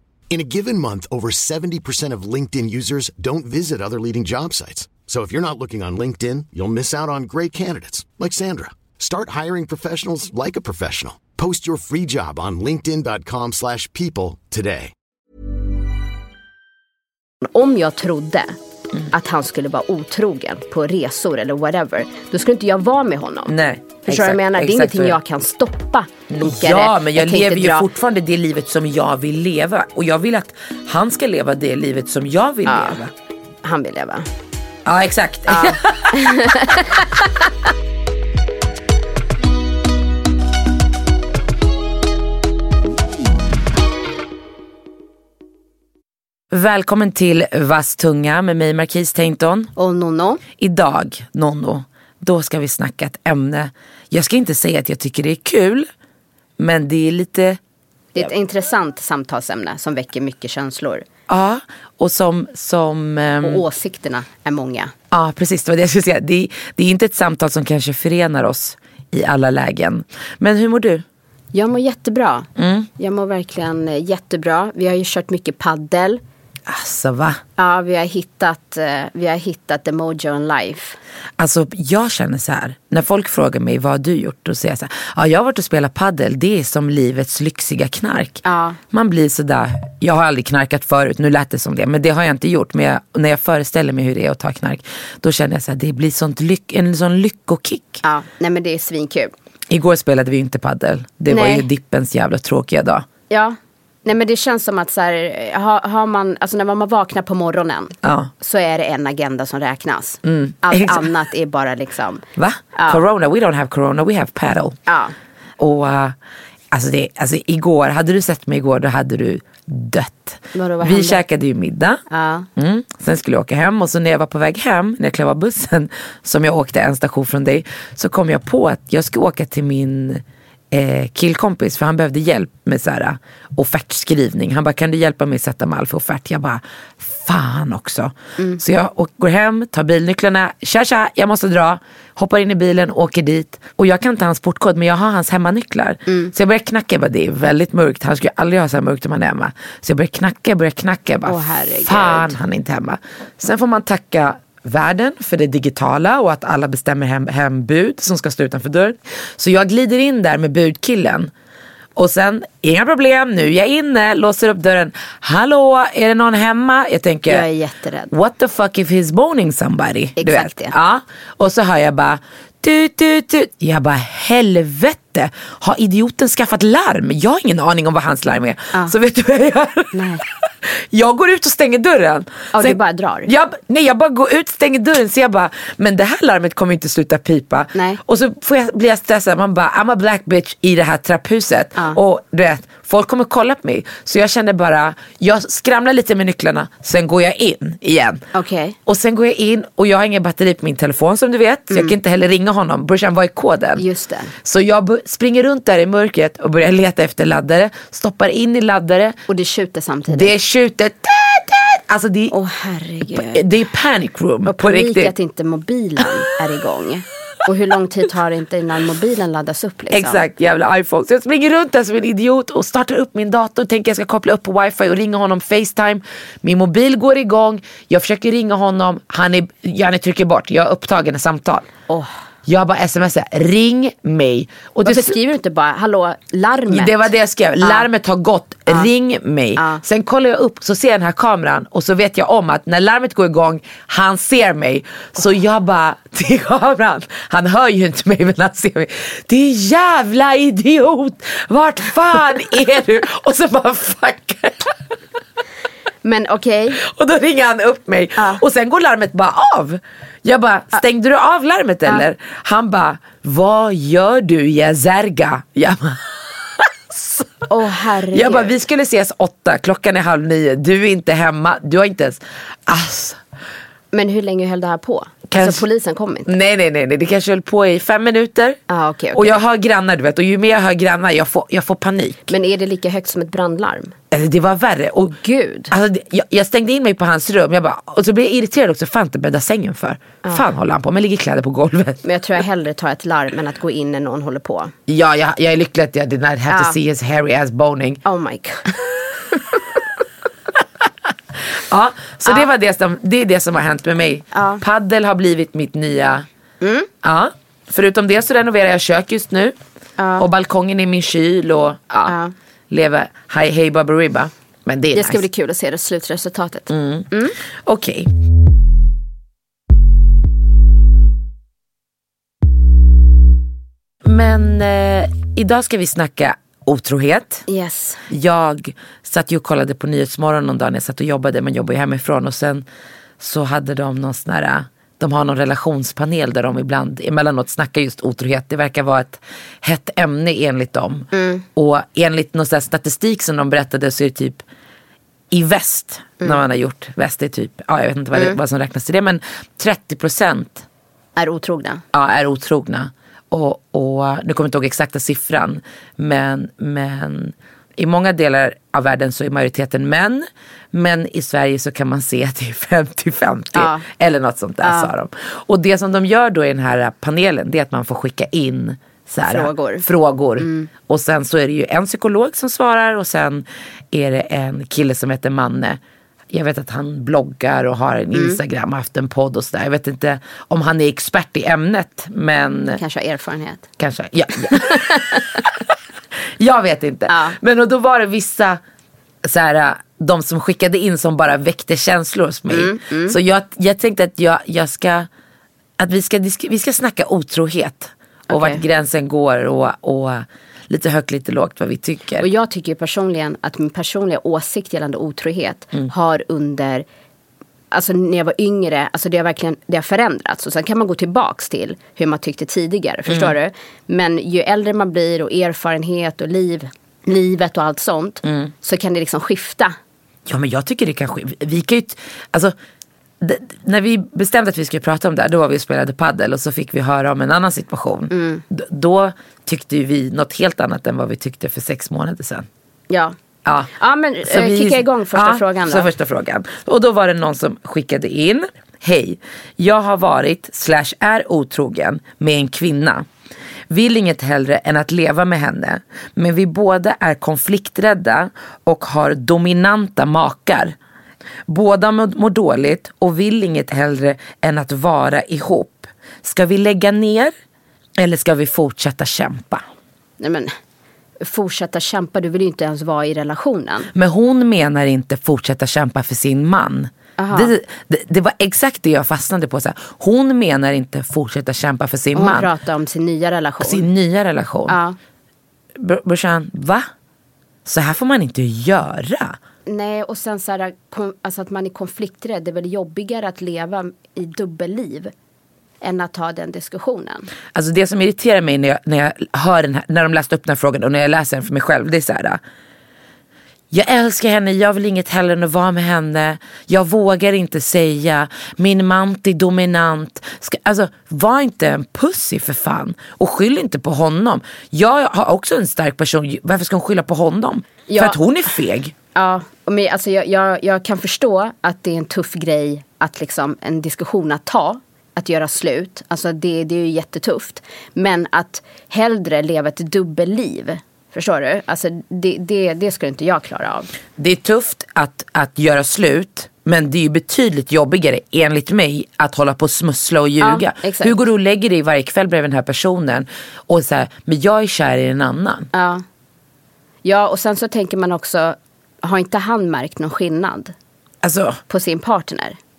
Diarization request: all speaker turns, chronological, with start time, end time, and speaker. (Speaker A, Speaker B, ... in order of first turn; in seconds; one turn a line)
Speaker A: 0.3-14.9
Speaker B: 17.4-18.6
Speaker B: 19.1-23.5
Speaker C: 23.5-25.2
Speaker B: 24.0-27.9
Speaker C: 26.3-33.1
Speaker B: 32.7-33.0
Speaker B: 33.6-34.3
Speaker C: 34.8-36.7
Speaker B: 35.5-37.5
Speaker C: 46.5-49.7
Speaker B: 49.8-50.4
Speaker C: 50.6-55.9
Speaker C: 56.6-57.6
Speaker B: 58.1-61.0
Speaker C: 61.3-63.6
Speaker B: 63.4-64.9
Speaker C: 65.1-71.0
Speaker B: 71.5-72.5
Speaker C: 72.5-72.9
Speaker B: 73.0-76.2
Speaker C: 76.7-77.4
Speaker B: 77.6-81.0
Speaker C: 81.4-98.0
Speaker B: 88.4-88.8
Speaker B: 98.0-99.3
Speaker C: 99.7-103.0
Speaker B: 101.3-101.7
Speaker B: 103.3-112.2
Speaker C: 108.0-108.3
Speaker C: 110.2-111.1
Speaker C: 112.4-114.8
Speaker B: 112.8-113.0
Speaker B: 114.9-115.1
Speaker C: 115.6-116.2
Speaker C: 116.7-122.0
Speaker B: 120.5-121.2
Speaker B: 122.1-122.5
Speaker C: 122.5-161.3
Speaker B: 151.2-152.3
Speaker C: 162.0-167.5
Speaker B: 167.3-168.1
Speaker C: 168.1-198.2
Speaker B: 170.2-170.7
Speaker B: 179.9-180.2
Speaker B: 182.5-183.3
Speaker B: 198.3-198.8
Speaker C: 198.9-203.8
Speaker B: 201.7-202.0
Speaker B: 203.8-204.3
Speaker C: 204.4-209.2
Speaker B: 209.3-210.3
Speaker C: 210.1-212.3
Speaker B: 212.3-213.4
Speaker C: 213.1-215.1
Speaker B: 214.5-220.2
Speaker C: 219.9-231.7
Speaker C: 232.5-235.2
Speaker B: 234.8-237.1
Speaker C: 236.7-254.9
Speaker B: 237.6-237.9
Speaker B: 239.6-239.8
Speaker B: 256.0-256.8
Speaker C: 256.8-267.5
Speaker B: 267.5-268.5
Speaker C: 268.1-273.2
Speaker B: 273.9-276.3
Speaker C: 275.3-275.6
Speaker C: 276.2-278.6
Speaker B: 278.7-279.4
Speaker C: 279.1-282.3
Speaker B: 282.3-283.9
Speaker C: 284.1-285.2
Speaker B: 285.1-285.7
Speaker C: 285.7-292.0
Speaker B: 292.0-294.7
Speaker C: 294.9-298.0
Speaker B: 296.5-296.8
Speaker B: 298.0-298.7
Speaker B: 299.3-299.6
Speaker C: 301.5-306.2
Speaker B: 304.3-304.6
Speaker B: 306.6-306.9
Speaker C: 307.0-309.6
Speaker B: 310.0-310.2
Speaker C: 310.2-312.1
Speaker B: 312.1-312.3
Speaker C: 312.7-315.2
Speaker B: 314.9-317.4
Speaker C: 316.7-318.1
Speaker C: 324.0-327.4
Speaker B: 327.5-328.0
Speaker C: 328.1-332.6
Speaker C: 333.2-344.4
Speaker B: 341.1-341.4
Speaker C: 345.3-350.6
Speaker B: 351.1-351.8
Speaker C: 351.9-382.8
Speaker B: 363.5-363.8
Speaker B: 364.6-364.9
Speaker B: 369.2-369.8
Speaker B: 370.4-370.7
Speaker B: 378.1-378.4
Speaker B: 382.8-383.6
Speaker C: 383.8-385.7
Speaker B: 384.5-385.2
Speaker C: 386.4-388.6
Speaker B: 387.1-387.4
Speaker C: 389.2-395.1
Speaker B: 392.5-393.2
Speaker C: 395.8-402.3
Speaker B: 398.3-398.6
Speaker B: 402.2-406.8
Speaker B: 407.7-419.8
Speaker C: 413.1-413.3
Speaker C: 418.2-418.5
Speaker C: 420.3-422.5
Speaker C: 423.2-432.5
Speaker B: 428.1-428.4
Speaker B: 432.9-433.1
Speaker C: 433.4-433.7
Speaker B: 433.8-435.9
Speaker C: 434.2-443.1
Speaker C: 443.7-450.8
Speaker C: 451.5-457.3
Speaker C: 458.0-459.6
Speaker B: 460.2-460.5
Speaker B: 461.2-463.9
Speaker C: 463.9-472.5
Speaker B: 467.2-467.5
Speaker B: 472.1-473.9
Speaker C: 473.6-474.8
Speaker B: 474.7-475.0
Speaker C: 475.8-476.9
Speaker C: 477.6-479.4
Speaker B: 479.7-485.1
Speaker B: 485.8-487.3
Speaker C: 487.5-492.4
Speaker C: 493.7-508.9
Speaker B: 507.9-508.2
Speaker B: 509.1-523.9
Speaker C: 524.2-535.7
Speaker B: 530.4-531.2
Speaker B: 535.7-536.0
Speaker B: 537.0-540.7
Speaker C: 541.2-541.6
Speaker B: 541.7-542.6